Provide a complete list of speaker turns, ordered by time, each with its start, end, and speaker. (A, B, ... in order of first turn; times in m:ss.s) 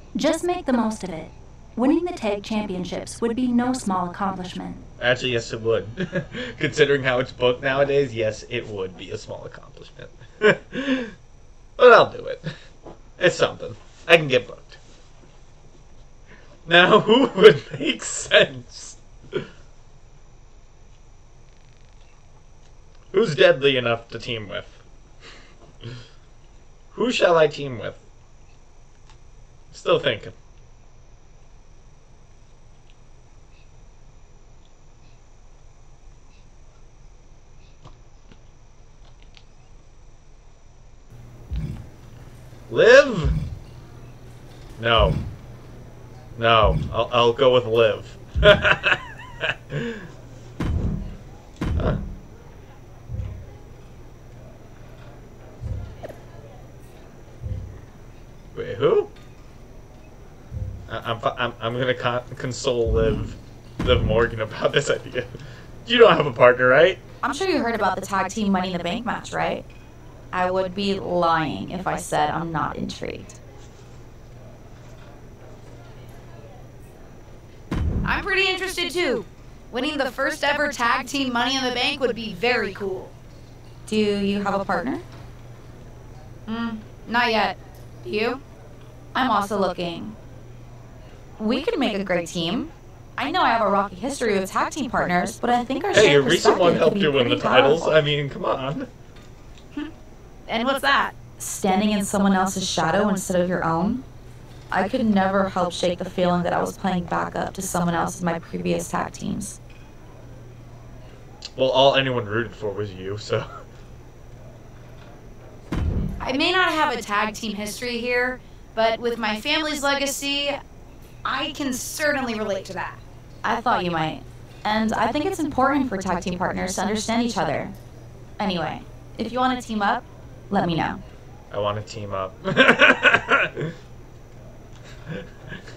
0:00.1-0:04.9 A
0:05.0-0:11.1 B
0:11.8-0:12.5 B
0:13.2-0:14.8 B
0:16.6-0:19.5 B
0:23.1-0:24.8 B
0:26.9-0:28.0 B
0:29.7-0:30.3 B
0:42.7-0:43.4 B
0:44.8-0:45.2 B
0:46.4-0:50.1 B
0:51.8-0:52.0 B
0:58.5-0:59.1 B
1:00.9-1:05.3 B
1:05.8-1:07.0 B
1:07.2-1:09.6 C
1:10.3-1:13.4 C
1:18.0-1:23.1 D
1:23.9-1:25.0 C
1:26.5-1:28.4 D
1:29.1-1:30.2 C
1:31.4-1:38.0 C
1:35.9-1:38.9 B
1:40.5-1:41.2 D
1:41.3-1:44.0 C
1:44.7-1:49.6 C
1:51.6-1:53.6 B
1:56.2-2:00.6 D
2:01.2-2:03.0 D
2:03.4-2:07.8 C
2:08.4-2:11.0 C
2:11.5-2:13.7 B
2:15.1-2:15.6 B